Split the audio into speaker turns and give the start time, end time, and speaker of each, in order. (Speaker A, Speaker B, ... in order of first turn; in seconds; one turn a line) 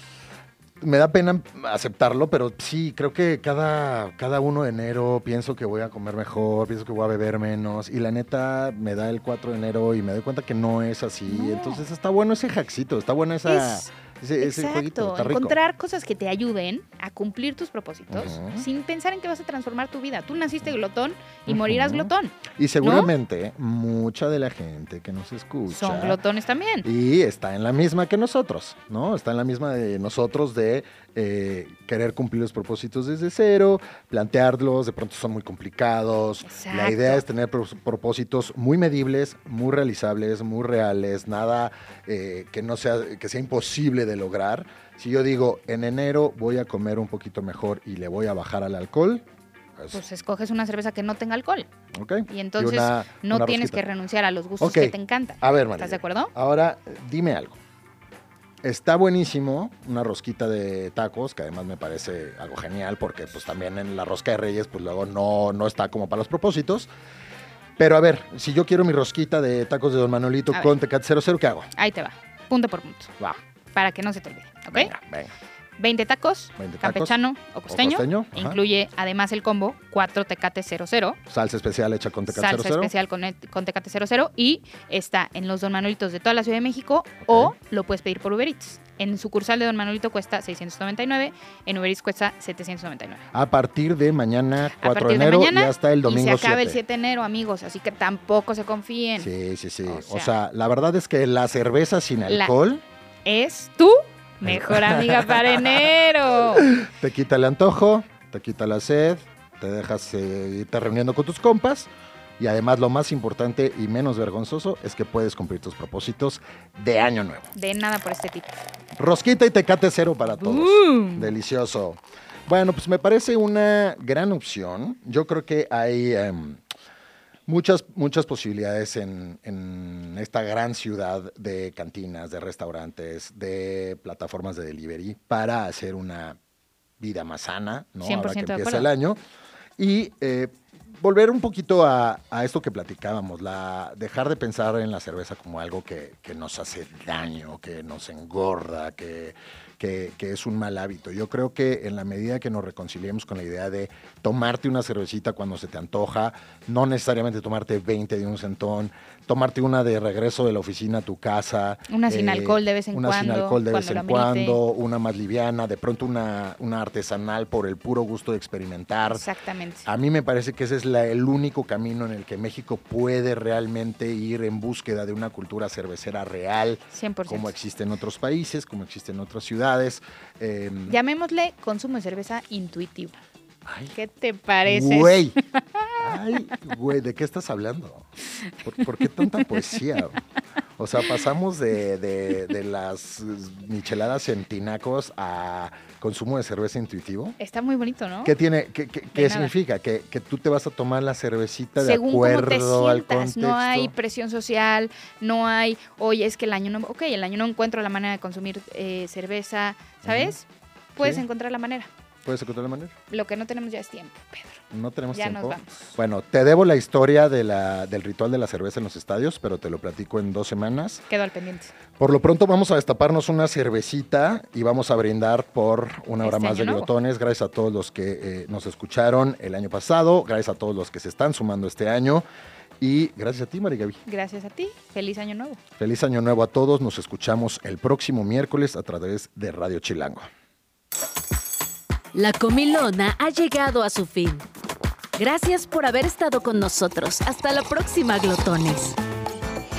Speaker A: 0.8-15.6
Speaker B: 11.3-11.8
Speaker B: 13.4-23.1
Speaker A: 18.1-18.7
Speaker A: 21.5-26.2
Speaker B: 25.7-26.9
Speaker A: 26.8-50.0
Speaker B: 36.4-37.2
Speaker B: 49.9-51.7
Speaker A: 51.9-53.8
Speaker B: 52.3-56.3
Speaker A: 54.6-57.6
Speaker A: 58.6-66.9
Speaker A: 67.8-71.7
Speaker B: 71.7-73.2
Speaker B: 73.7-74.9
Speaker A: 74.7-75.3
Speaker B: 75.8-81.2
Speaker A: 76.6-77.2
Speaker A: 77.7-78.6
Speaker A: 81.3-82.9
Speaker B: 82.3-93.3
Speaker A: 87.2-87.5
Speaker A: 93.3-96.8
Speaker B: 94.8-99.3
Speaker A: 99.2-102.8
Speaker B: 99.8-100.3
Speaker B: 102.3-102.5
Speaker B: 103.2-106.7
Speaker A: 104.4-105.6
Speaker A: 106.5-117.5
Speaker B: 117.5-118.6
Speaker A: 118.9-126.6
Speaker B: 120.4-121.3
Speaker A: 127.5-136.4
Speaker A: 137.0-139.2
Speaker B: 138.0-138.9
Speaker A: 139.8-169.2
Speaker B: 161.9-164.6
Speaker B: 169.1-169.8
Speaker A: 169.8-181.0
Speaker B: 176.9-177.5
Speaker B: 180.9-183.2
Speaker A: 183.7-183.9
Speaker B: 183.9-186.2
Speaker A: 184.6-185.4
Speaker A: 186.0-188.1
Speaker A: 188.6-190.2
Speaker A: 190.8-197.3
Speaker B: 197.4-198.3
Speaker A: 198.2-203.9
Speaker B: 199.1-199.5
Speaker B: 201.8-211.9
Speaker A: 210.0-210.3
Speaker A: 211.0-211.2
Speaker A: 212.2-212.9
Speaker B: 213.1-214.6
Speaker A: 214.7-221.0
Speaker B: 215.1-215.9
Speaker B: 221.1-221.7
Speaker A: 222.0-232.2
Speaker B: 226.2-226.9
Speaker A: 232.8-234.0
Speaker B: 234.1-235.6
Speaker A: 235.8-240.3
Speaker C: 242.1-244.4
Speaker C: 245.2-249.0